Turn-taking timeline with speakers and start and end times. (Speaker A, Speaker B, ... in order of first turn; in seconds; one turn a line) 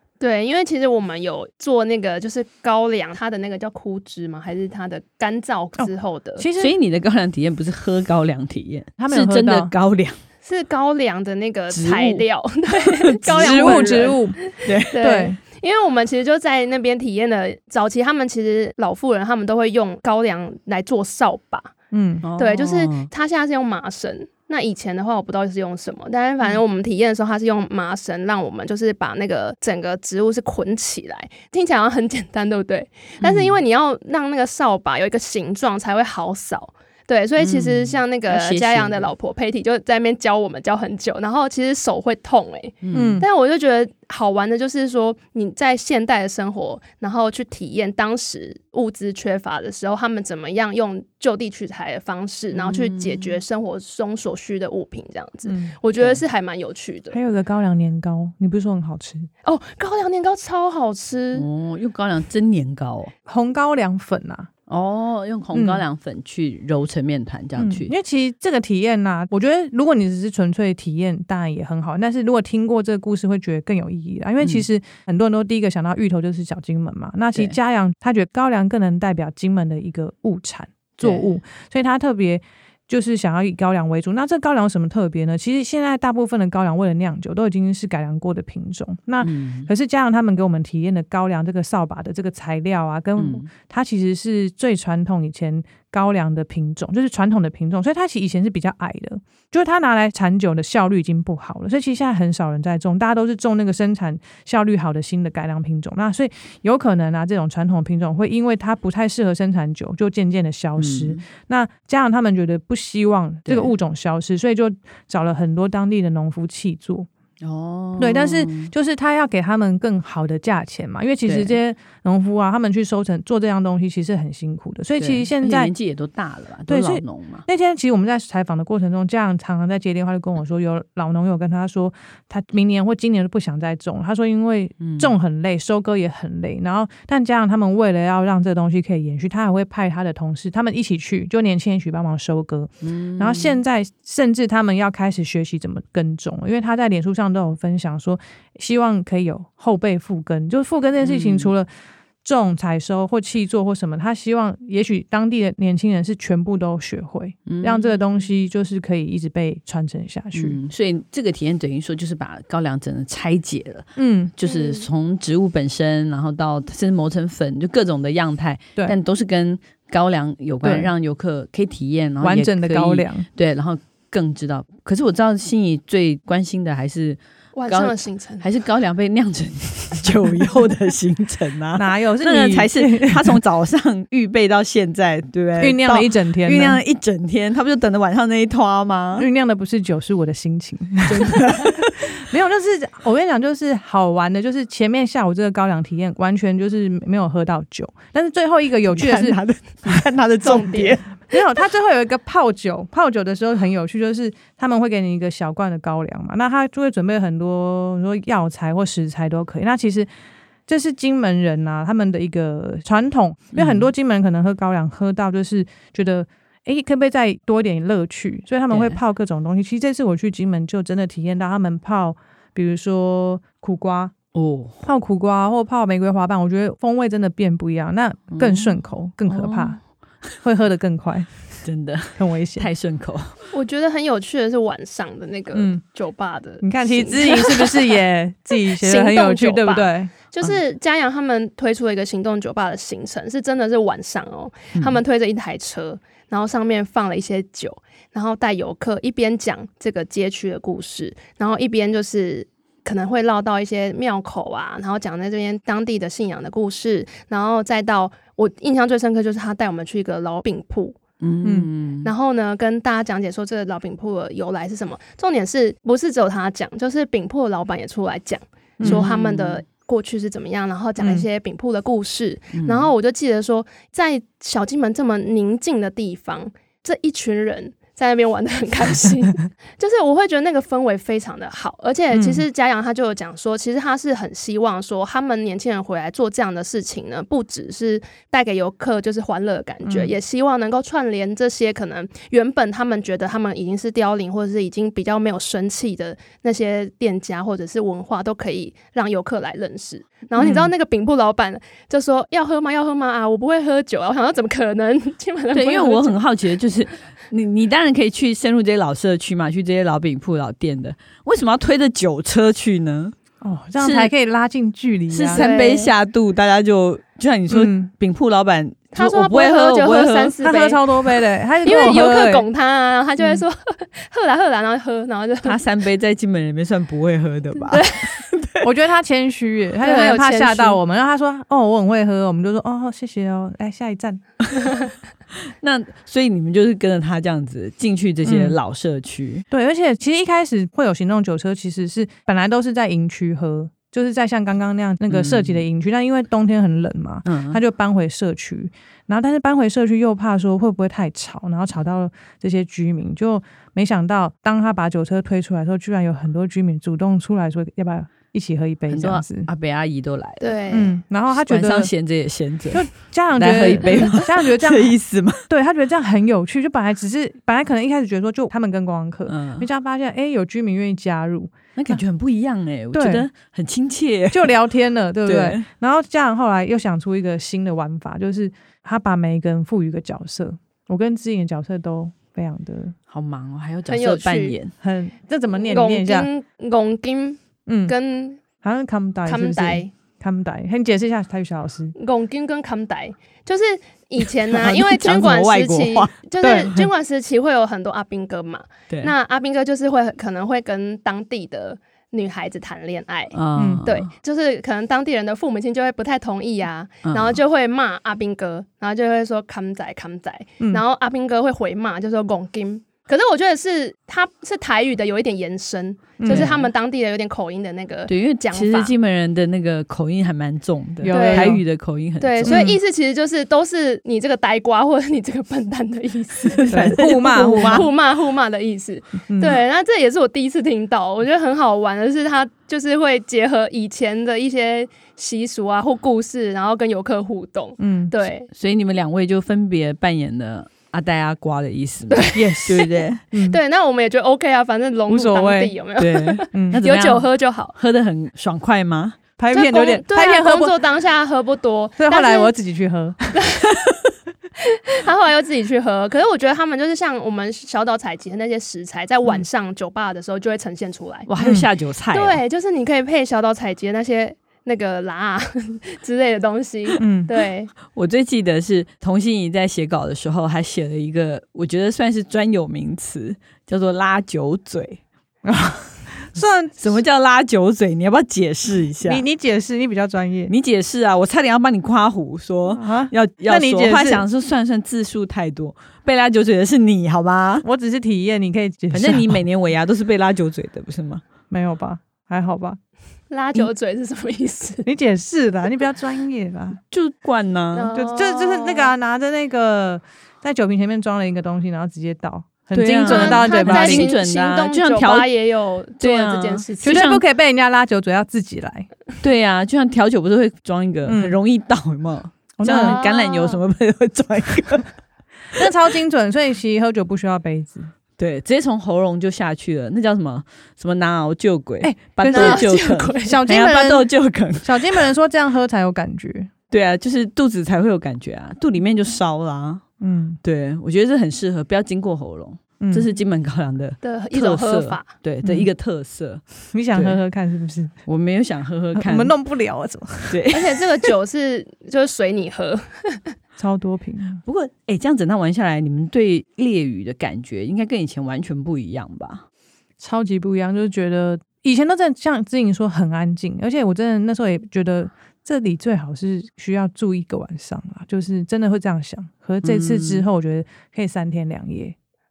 Speaker A: 0.2-6.5
Speaker B: 5.8-6.7
Speaker C: 6.6-10.2
Speaker B: 9.0-9.7
Speaker A: 10.4-21.7
Speaker C: 11.7-12.2
Speaker C: 12.9-14.1
Speaker B: 13.3-14.4
Speaker C: 14.7-14.9
Speaker B: 15.0-15.4
Speaker B: 21.9-22.2
Speaker C: 22.2-23.1
Speaker A: 22.4-57.2
Speaker C: 33.2-33.6
Speaker C: 37.4-39.1
Speaker C: 42.8-43.2
Speaker B: 42.9-43.3
Speaker C: 52.5-53.4
Speaker B: 55.5-55.8
Speaker B: 57.1-59.3
Speaker A: 59.4-61.5
Speaker C: 61.3-63.1
Speaker B: 63.3-64.5
Speaker C: 64.7-67.9
Speaker B: 65.5-65.8
Speaker B: 67.6-117.1
Speaker C: 81.0-81.2
Speaker C: 89.2-89.7
Speaker C: 93.2-93.5
Speaker C: 110.8-111.2
Speaker C: 117.4-118.7
Speaker B: 118.0-125.7
Speaker C: 121.3-121.6
Speaker C: 125.0-127.5
Speaker B: 126.7-151.7
Speaker C: 134.8-135.1
Speaker C: 142.8-143.6
Speaker C: 151.0-151.5
Speaker B: 152.2-160.6
Speaker C: 157.5-157.9
Speaker C: 160.3-189.3
Speaker B: 164.0-164.3
Speaker A: 164.4-164.9
Speaker B: 170.6-170.9
Speaker B: 172.2-173.3
Speaker A: 177.6-178.5
Speaker B: 181.8-183.4
Speaker B: 185.6-186.8
Speaker B: 189.2-199.4
Speaker C: 191.1-192.0
Speaker C: 198.9-201.2
Speaker A: 200.4-201.0
Speaker B: 201.3-210.1
Speaker B: 210.7-224.2
Speaker C: 213.5-213.9
Speaker C: 218.7-219.0
Speaker C: 224.3-224.8
Speaker B: 224.8-229.8
Speaker C: 228.3-230.3
Speaker B: 230.4-231.3
Speaker C: 231.6-233.3
Speaker B: 232.2-232.7
Speaker A: 233.5-238.0
Speaker B: 235.5-235.8
Speaker B: 236.6-240.1
Speaker A: 238.7-261.0
Speaker C: 261.2-262.1
Speaker B: 261.4-261.7
Speaker A: 262.0-306.2
Speaker B: 268.8-269.1
Speaker C: 268.8-269.6
Speaker C: 272.5-272.9
Speaker B: 282.1-282.4
Speaker B: 289.9-290.1
Speaker B: 300.4-300.7
Speaker C: 305.5-313.1
Speaker B: 313.4-315.4
Speaker C: 313.8-314.1
Speaker C: 315.1-320.4
Speaker A: 315.3-315.9
Speaker B: 317.5-317.9
Speaker A: 318.9-320.8
Speaker B: 320.4-322.5
Speaker A: 321.6-325.6
Speaker C: 325.4-328.7
Speaker A: 327.6-328.1
Speaker B: 328.6-334.4
Speaker A: 329.8-330.8
Speaker C: 335.6-339.4
Speaker B: 338.2-338.6
Speaker B: 339.5-359.5
Speaker C: 345.1-345.6
Speaker C: 347.3-347.6
Speaker C: 358.9-360.6
Speaker A: 360.4-361.0
Speaker B: 360.7-361.9
Speaker C: 361.3-365.4
Speaker B: 362.7-372.0
Speaker C: 369.3-369.7
Speaker C: 371.8-374.5
Speaker B: 372.9-373.3
Speaker B: 374.3-382.9
Speaker C: 375.3-375.6
Speaker C: 383.1-384.7
Speaker A: 383.9-384.6
Speaker B: 384.8-386.3
Speaker A: 385.7-388.4
Speaker B: 387.7-387.9
Speaker B: 388.6-391.9
Speaker A: 389.3-389.9
Speaker A: 392.0-418.9
Speaker C: 394.5-396.1
Speaker B: 396.4-396.8
Speaker C: 403.3-404.1
Speaker B: 403.6-403.9
Speaker C: 407.1-407.4
Speaker B: 416.2-416.5
Speaker C: 416.3-416.7
Speaker C: 418.1-422.6
Speaker B: 421.0-421.6
Speaker A: 421.1-421.6
Speaker A: 422.2-427.0
Speaker B: 422.5-422.8
Speaker C: 426.4-427.9
Speaker B: 426.7-427.9
Speaker A: 427.6-438.5
Speaker B: 429.3-429.6
Speaker B: 437.8-438.1
Speaker C: 438.5-443.2
Speaker A: 442.1-442.8
Speaker B: 442.4-443.6
Speaker A: 443.5-447.7
Speaker B: 445.1-445.7
Speaker C: 446.0-449.2
Speaker B: 446.5-446.8
Speaker B: 449.4-450.7
Speaker A: 449.5-452.5
Speaker B: 452.0-453.4
Speaker A: 454.6-461.3
Speaker C: 461.3-462.4
Speaker B: 461.4-461.7
Speaker A: 462.1-467.7
Speaker B: 467.0-467.3
Speaker C: 467.9-475.0
Speaker B: 475.4-476.8
Speaker C: 476.8-479.2
Speaker B: 479.1-480.5
Speaker C: 480.5-487.6
Speaker B: 482.7-484.2
Speaker B: 487.6-489.4
Speaker C: 488.9-491.2
Speaker B: 491.5-492.8
Speaker A: 493.3-494.9
Speaker B: 494.9-496.8
Speaker C: 496.9-497.9
Speaker A: 497.7-498.9
Speaker B: 497.9-504.1
Speaker C: 502.7-505.3
Speaker A: 503.1-507.2
Speaker C: 506.0-507.1
Speaker B: 506.8-508.9
Speaker C: 509.2-514.9
Speaker B: 511.1-511.4
Speaker B: 512.6-513.0
Speaker A: 512.6-513.6
Speaker B: 515.5-517.9
Speaker C: 518.2-525.1
Speaker B: 521.8-522.7
Speaker A: 522.3-523.4
Speaker B: 523.2-524.1
Speaker B: 524.6-526.5
Speaker C: 526.7-529.8
Speaker B: 530.0-530.4
Speaker C: 530.4-536.4
Speaker B: 532.8-533.1
Speaker A: 534.0-535.1
Speaker B: 535.4-535.7
Speaker B: 536.7-537.9
Speaker C: 536.9-537.2
Speaker C: 538.1-539.4
Speaker B: 539.0-540.4
Speaker C: 540.3-540.8
Speaker A: 540.5-543.3
Speaker B: 543.6-544.4
Speaker C: 544.5-549.5
Speaker B: 550.0-562.0
Speaker C: 559.6-560.2